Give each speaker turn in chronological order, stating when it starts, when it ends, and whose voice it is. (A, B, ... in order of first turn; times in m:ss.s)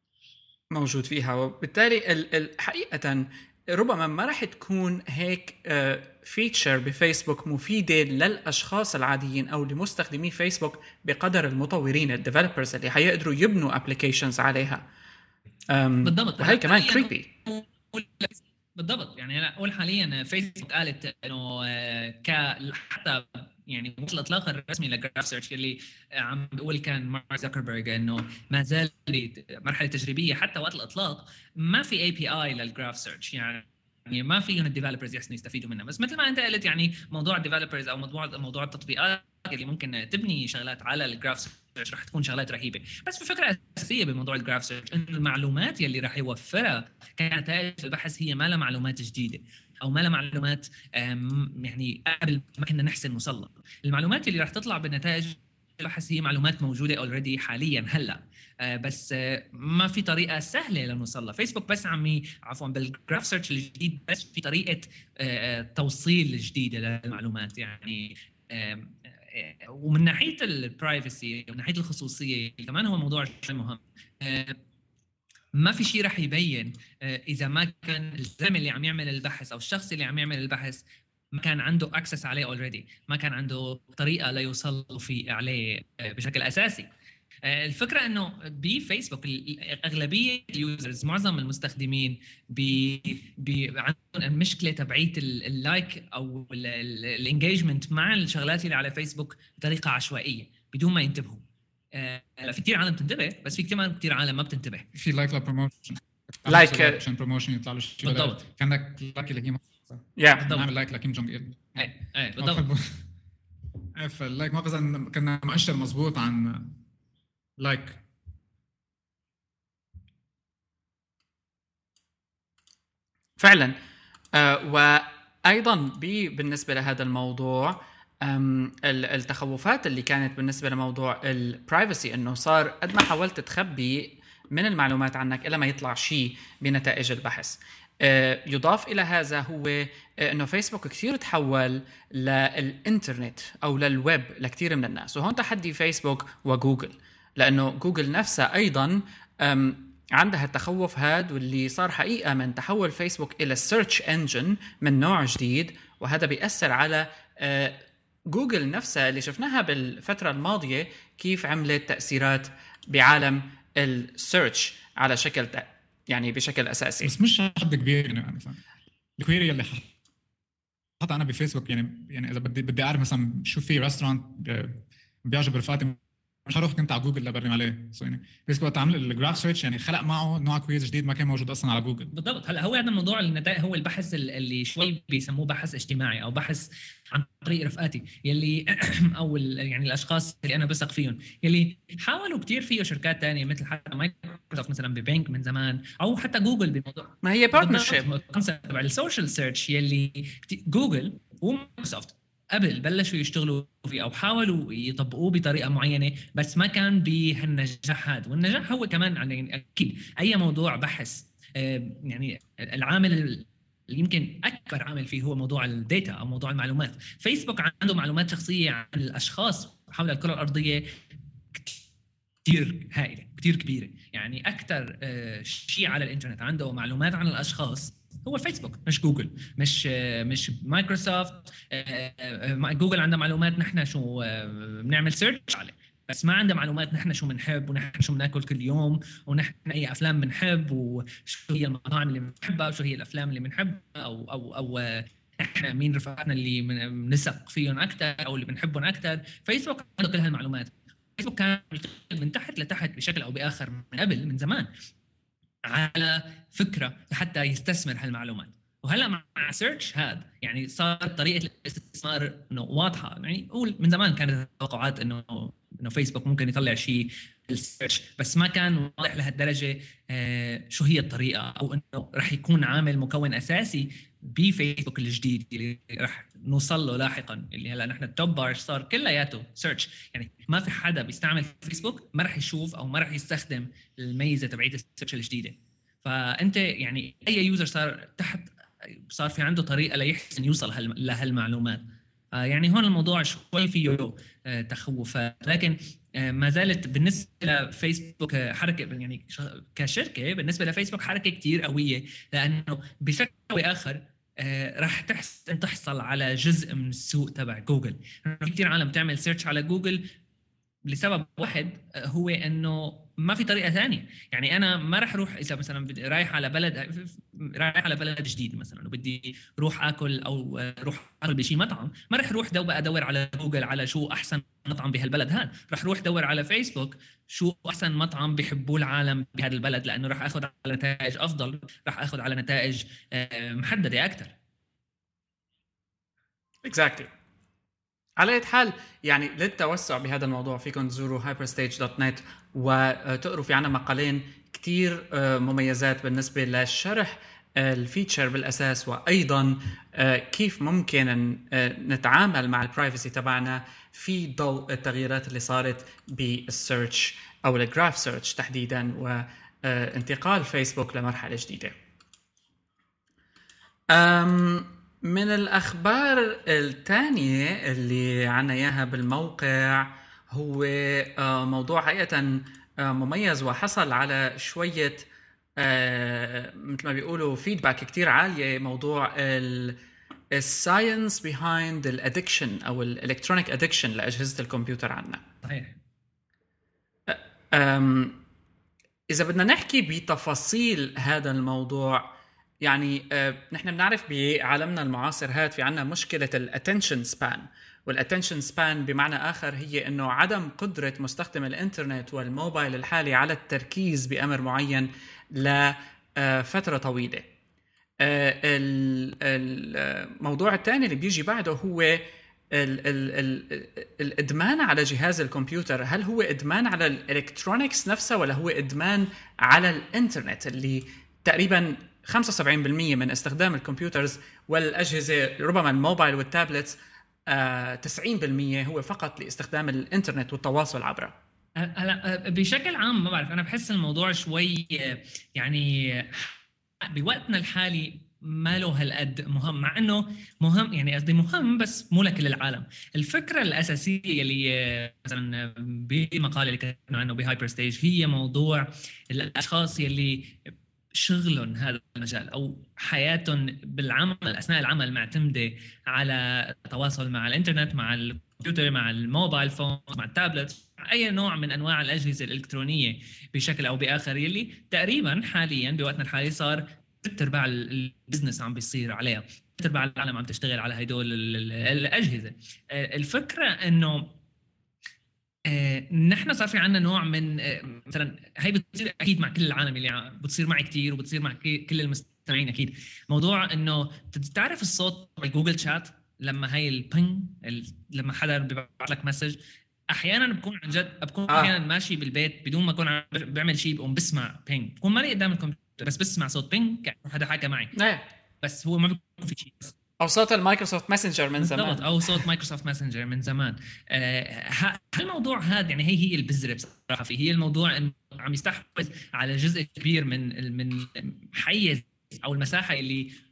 0:00.7-0:14.8 A
0:15.7-0:17.3 A
0:16.0-1:14.6 B
1:15.6-1:26.9 B
1:27.4-1:44.9 B
1:44.9-1:53.0 C
1:46.5-1:47.0 A
1:48.0-1:48.4 B
1:50.2-1:50.5 A
1:51.8-1:52.6 B
1:54.0-1:56.8 C
1:57.6-1:58.0 C
2:03.4-2:03.7 A
2:04.3-2:47.1 A
2:47.0-2:48.6 C
2:49.2-2:49.9 C
2:51.0-3:02.1 C
3:02.1-3:40.9 B
3:17.2-3:18.0 A
3:41.5-3:41.8 B
3:42.4-4:14.7 B
4:15.6-5:10.1 B
5:10.9-5:34.3 B
5:36.6-5:37.1 A
5:38.2-6:01.7 A
6:03.9-6:15.0 A
6:15.6-6:19.8 A
6:20.3-6:25.2 A
6:25.4-6:25.8 B
6:27.1-6:28.2 A
6:29.1-6:32.1 A
6:32.6-6:47.2 A
6:48.0-6:52.0 A
6:52.5-7:06.8 A
7:07.3-7:11.1 A
7:11.6-7:54.1 B
7:55.5-8:09.4 B
8:09.9-8:17.7 B
8:11.3-8:11.5 A
8:17.7-8:18.0 A
8:18.4-8:19.7 B
8:20.0-8:22.2 A
8:21.4-8:33.2 B